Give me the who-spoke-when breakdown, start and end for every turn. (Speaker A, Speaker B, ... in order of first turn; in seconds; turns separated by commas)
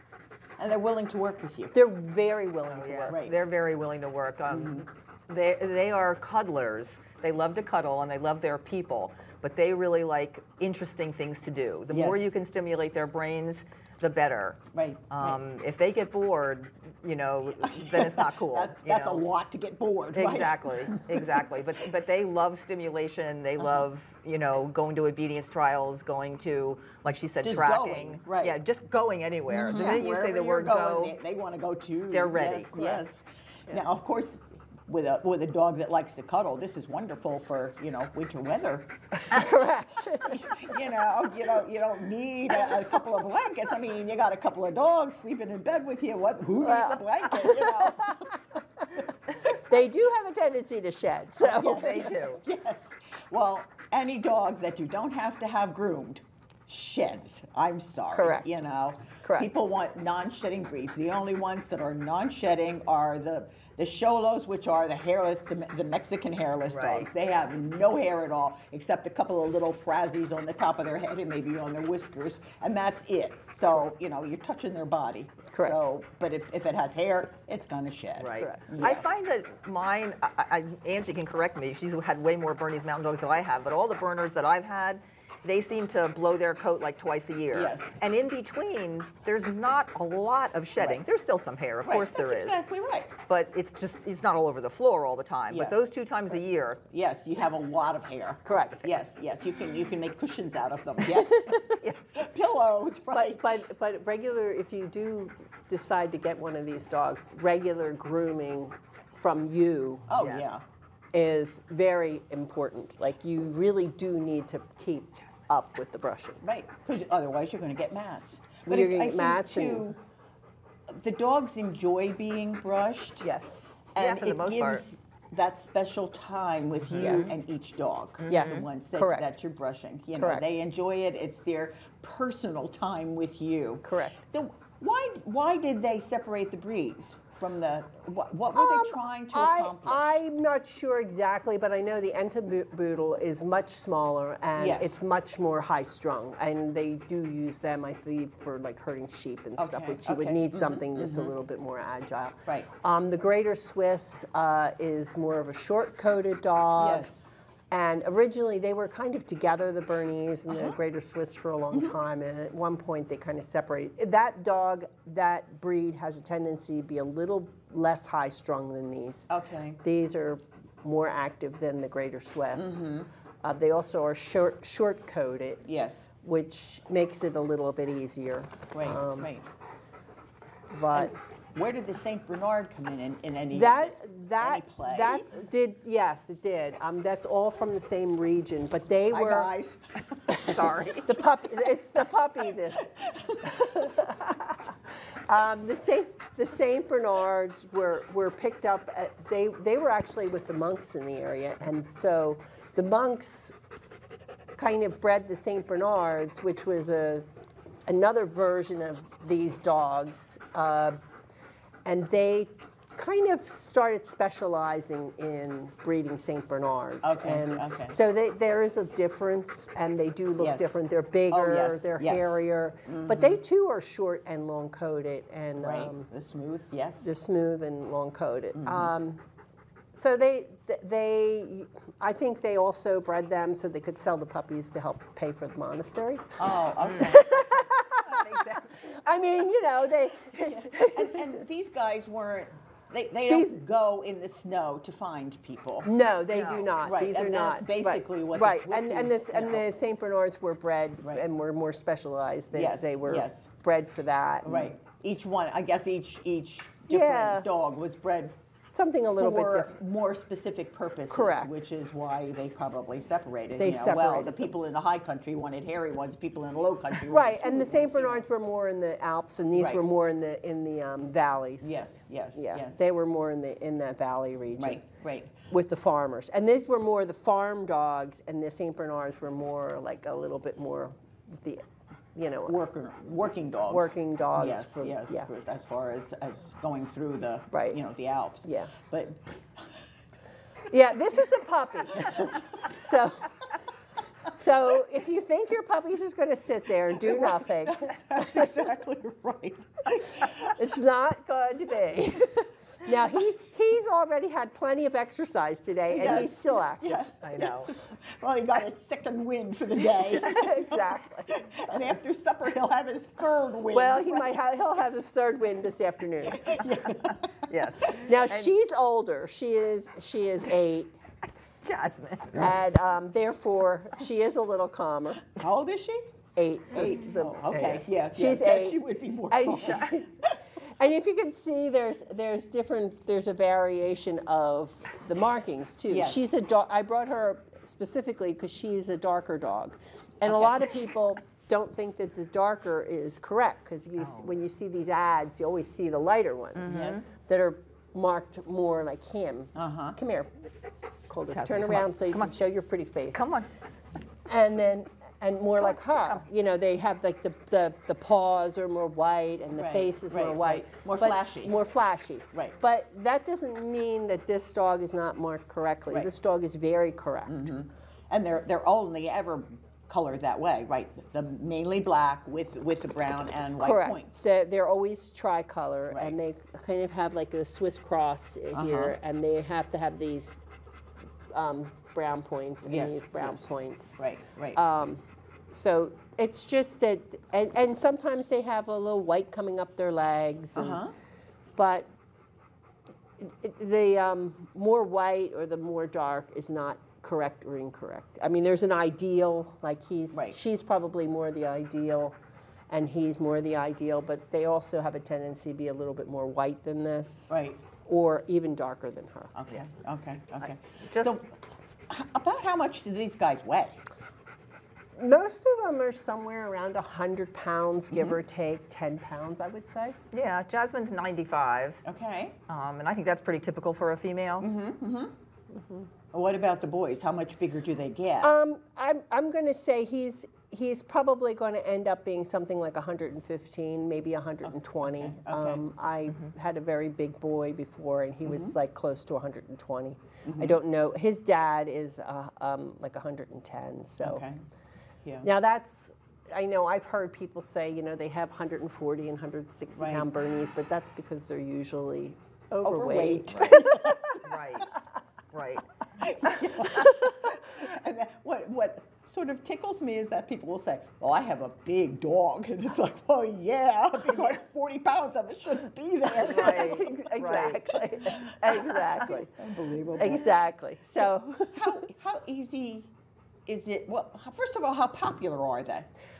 Speaker A: 0.6-1.7, Speaker B: 1.7-3.2, Speaker C: 2.7-19.2, Speaker A: 3.1-3.4, Speaker A: 4.5-4.9, Speaker A: 11.9-12.3, Speaker A: 14.7-15.4, Speaker A: 17.6-21.5, Speaker C: 20.1-31.1, Speaker A: 27.4-28.6, Speaker A: 29.5-39.5, Speaker C: 32.1-33.2, Speaker B: 39.1-40.8, Speaker A: 40.2-48.4, Speaker B: 46.6-48.3, Speaker B: 49.5-52.2, Speaker A: 51.4-79.1, Speaker C: 51.6-52.4, Speaker B: 58.1-58.5, Speaker B: 59.2-59.5, Speaker C: 66.7-67.1, Speaker B: 75.5-75.8, Speaker C: 78.2-92.6, Speaker B: 78.4-78.7, Speaker A: 87.5-87.9, Speaker A: 90.8-91.0, Speaker A: 91.8-93.1, Speaker C: 93.3-96.8, Speaker A: 95.5-95.8, Speaker A: 96.9-103.5, Speaker B: 98.5-98.9, Speaker B: 101.5-101.8, Speaker C: 101.8-102.2, Speaker B: 103.1-110.1, Speaker A: 110.1-110.6, Speaker C: 110.2-110.6, Speaker B: 111.1-116.4, Speaker A: 116.4-120.0, Speaker B: 118.7-119.9, Speaker A: 120.9-123.2, Speaker B: 123.2-123.6, Speaker A: 123.9-140.2, Speaker C: 124.0-124.8, Speaker C: 126.9-127.3, Speaker B: 127.0-127.3, Speaker C: 128.2-128.6, Speaker B: 128.3-129.3, Speaker B: 130.2-130.4, Speaker B: 133.8-134.2, Speaker B: 138.5-157.1, Speaker A: 144.6-145.0, Speaker A: 149.6-151.3, Speaker A: 156.8-157.2, Speaker B: 157.7-169.3, Speaker A: 160.5-160.8, Speaker A: 169.3-169.8, Speaker B: 169.8-172.9, Speaker A: 172.5-173.1, Speaker B: 173.4-175.7, Speaker A: 175.6-176.1, Speaker B: 176.2-179.3, Speaker A: 178.7-179.5, Speaker B: 180.7-181.1, Speaker A: 180.9-185.3, Speaker B: 183.5-189.5, Speaker A: 189.1-191.0, Speaker C: 190.3-191.1, Speaker B: 191.0-192.9, Speaker A: 192.9-193.7, Speaker B: 193.4-194.7, Speaker B: 195.3-203.5, Speaker B: 204.5-207.3, Speaker B: 207.9-211.0, Speaker B: 211.8-226.1, Speaker A: 217.0-217.9, Speaker A: 220.4-220.8, Speaker A: 221.3-223.4, Speaker A: 225.6-227.1, Speaker B: 227.0-229.2, Speaker A: 228.6-228.9, Speaker B: 229.9-241.4, Speaker A: 236.4-238.3, Speaker C: 236.8-237.2, Speaker A: 240.3-245.9, Speaker B: 243.3-243.6, Speaker B: 245.8-254.7, Speaker C: 246.3-246.7, Speaker A: 246.8-249.7, Speaker A: 252.5-253.5, Speaker A: 254.4-258.4, Speaker B: 256.9-257.5, Speaker B: 258.7-259.7, Speaker A: 259.2-268.2, Speaker B: 261.1-261.5, Speaker B: 263.6-264.5, Speaker B: 267.1-271.8, Speaker A: 269.5-269.8, Speaker A: 271.6-272.8, Speaker B: 272.3-274.8, Speaker A: 274.6-275.4, Speaker B: 275.5-281.6, Speaker B: 282.1-282.6, Speaker A: 282.5-289.7, Speaker B: 283.7-285.3, Speaker B: 287.5-287.8, Speaker B: 288.4-288.7, Speaker B: 290.7-293.4, Speaker A: 291.9-292.4, Speaker B: 294.3-298.7, Speaker A: 296.9-300.5, Speaker B: 300.5-307.1, Speaker A: 305.9-314.4, Speaker C: 307.2-307.7, Speaker B: 310.0-311.4, Speaker B: 313.7-316.6, Speaker A: 316.2-317.9, Speaker C: 316.9-318.5, Speaker B: 317.9-320.9, Speaker C: 321.6-322.5, Speaker B: 322.3-325.3, Speaker A: 325.4-326.1, Speaker B: 326.4-327.5, Speaker A: 326.7-330.4, Speaker C: 327.5-327.8, Speaker B: 328.1-330.1, Speaker C: 329.6-329.9, Speaker B: 330.8-350.3, Speaker A: 335.9-336.2, Speaker A: 340.2-340.9, Speaker C: 344.0-344.3, Speaker C: 346.6-347.0, Speaker A: 346.6-347.0, Speaker A: 349.5-350.0, Speaker B: 351.1-353.2, Speaker C: 351.3-352.3, Speaker C: 353.1-353.5, Speaker B: 354.3-367.5, Speaker C: 355.6-356.2, Speaker A: 359.5-361.5, Speaker A: 367.3-374.2, Speaker B: 373.6-380.4, Speaker A: 375.9-376.2, Speaker A: 378.5-378.9, Speaker B: 381.3-383.9, Speaker A: 382.6-383.4, Speaker A: 384.0-384.6, Speaker B: 384.5-390.8, Speaker A: 390.6-390.9, Speaker B: 391.6-391.9, Speaker B: 393.2-402.2, Speaker B: 402.7-407.3, Speaker A: 407.3-407.6, Speaker B: 407.8-409.3, Speaker A: 409.3-411.3, Speaker C: 410.8-411.2, Speaker A: 411.9-413.8, Speaker B: 414.9-420.0, Speaker C: 420.1-421.8, Speaker A: 421.8-422.4, Speaker C: 422.5-424.5, Speaker A: 424.4-425.1, Speaker A: 426.1-428.3, Speaker B: 428.2-444.2, Speaker A: 434.9-435.6, Speaker A: 438.2-438.5, Speaker A: 440.2-440.6, Speaker A: 444.0-444.4, Speaker B: 445.2-454.1, Speaker A: 449.8-450.1, Speaker A: 452.6-454.6, Speaker C: 454.2-454.7, Speaker C: 455.3-456.9, Speaker A: 456.0-466.9, Speaker B: 466.1-469.3, Speaker C: 466.2-467.7, Speaker A: 468.1-470.4, Speaker B: 469.9-471.8, Speaker A: 471.0-472.9, Speaker A: 473.4-475.9